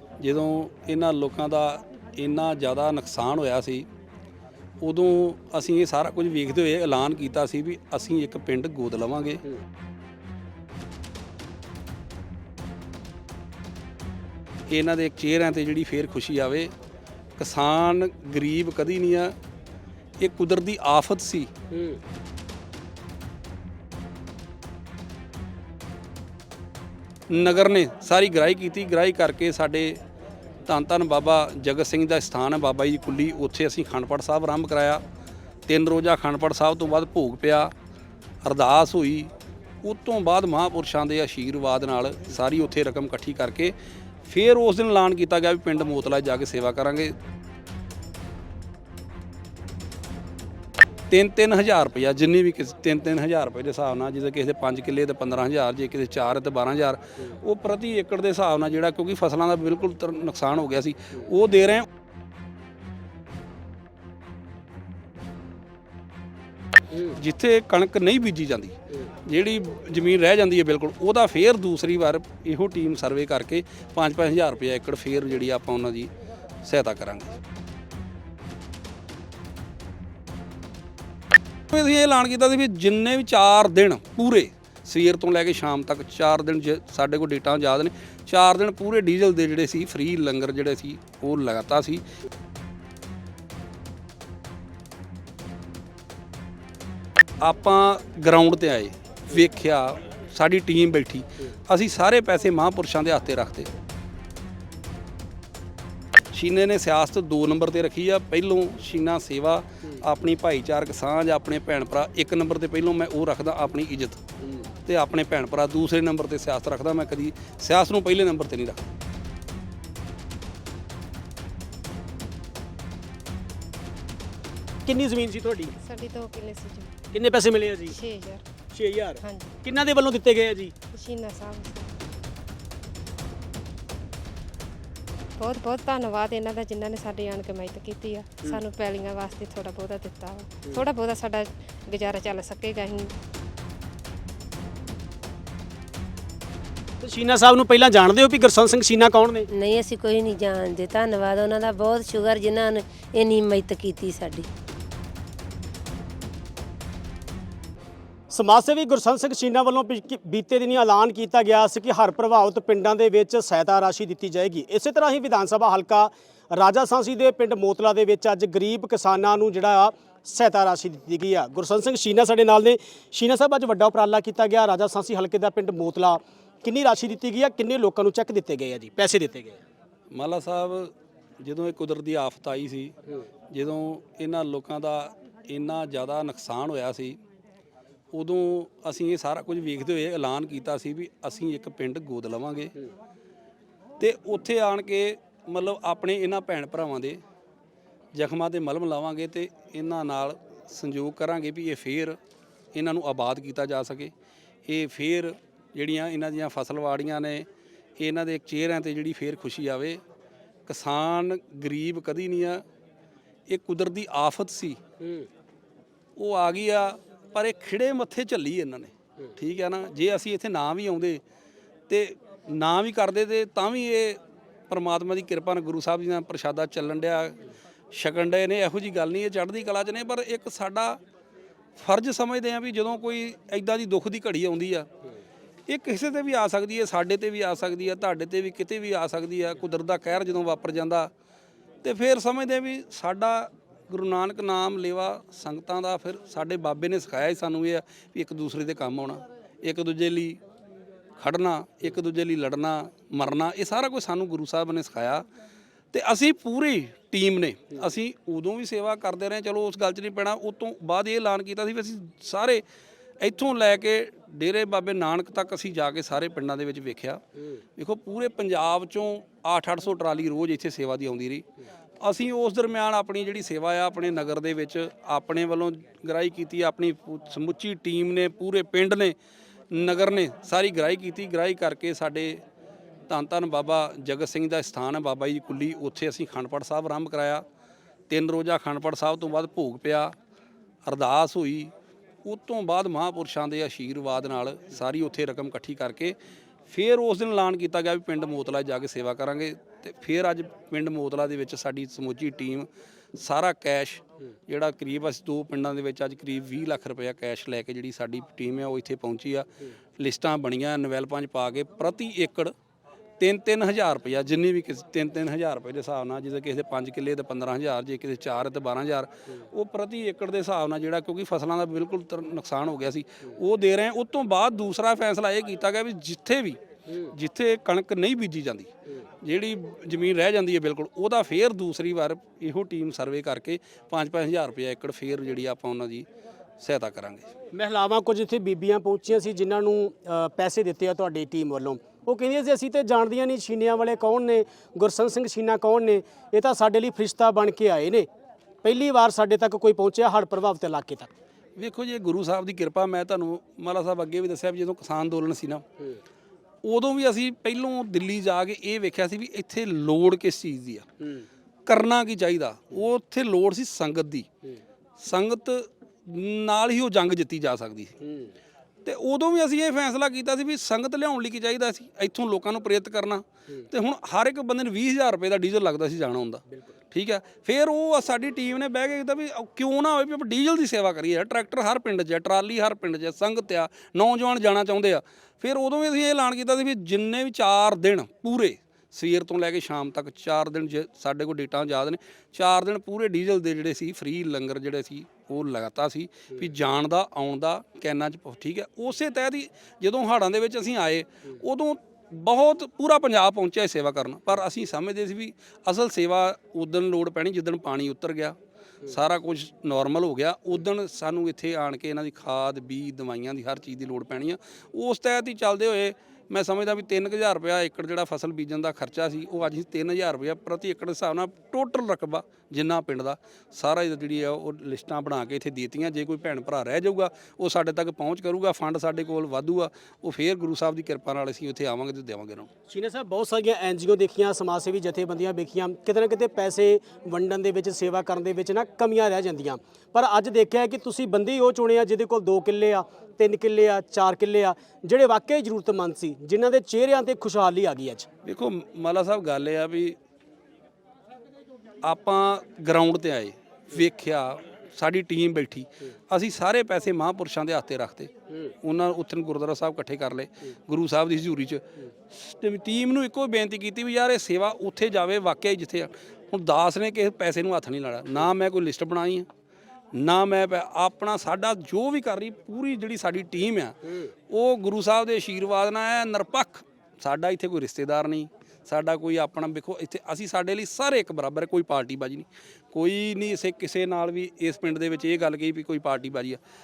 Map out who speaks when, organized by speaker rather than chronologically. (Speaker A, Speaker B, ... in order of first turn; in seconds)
Speaker A: 0.2-3.9, 4.8-9.4, 14.7-16.7, 17.4-19.4, 20.2-21.5, 27.3-30.0, 30.6-35.0, 35.7-37.7, 38.4-39.3, 39.8-47.1, 51.1-61.9, 67.0-76.1, 76.6-77.4, 81.7-92.0, 97.4-103.7, 106.3-114.2, 114.9-118.9, 180.1-183.0, 183.5-187.2, 188.1-192.7, 194.0-197.2, 198.1-202.2, 202.7-204.1, 204.7-207.5, 208.0-210.0, 210.7-212.6, 213.5-214.8, 216.2-221.2, 221.9-231.0, 231.8-234.9, 235.7-241.1, 241.8-250.4, 251.2-255.2, 255.9-262.6, 263.2-267.2, 267.8-271.5, 272.0-279.1, 279.7-282.4, 283.1-287.4, 288.1-290.1, 290.9-291.7, 292.2-312.5, 313.2-328.7, 329.2-336.1, 336.6-337.3, 351.6-355.6, 356.6-360.9, 361.7-364.3, 365.0-368.0, 368.9-432.5, 448.2-450.0, 451.8-458.1, 458.6-469.3, 469.9-486.4
Speaker B: 21.7-22.0, 124.8-125.8, 127.1-128.0, 128.7-130.7, 147.0-149.5, 158.3-179.6, 215.0-215.3, 337.5-348.1, 348.6-351.1, 361.0-361.3, 368.0-368.3, 432.7-448.1
Speaker C: 125.8-126.9, 127.9-128.4, 129.2-129.6, 130.9-132.0, 135.4-143.1
Speaker D: 149.5-154.5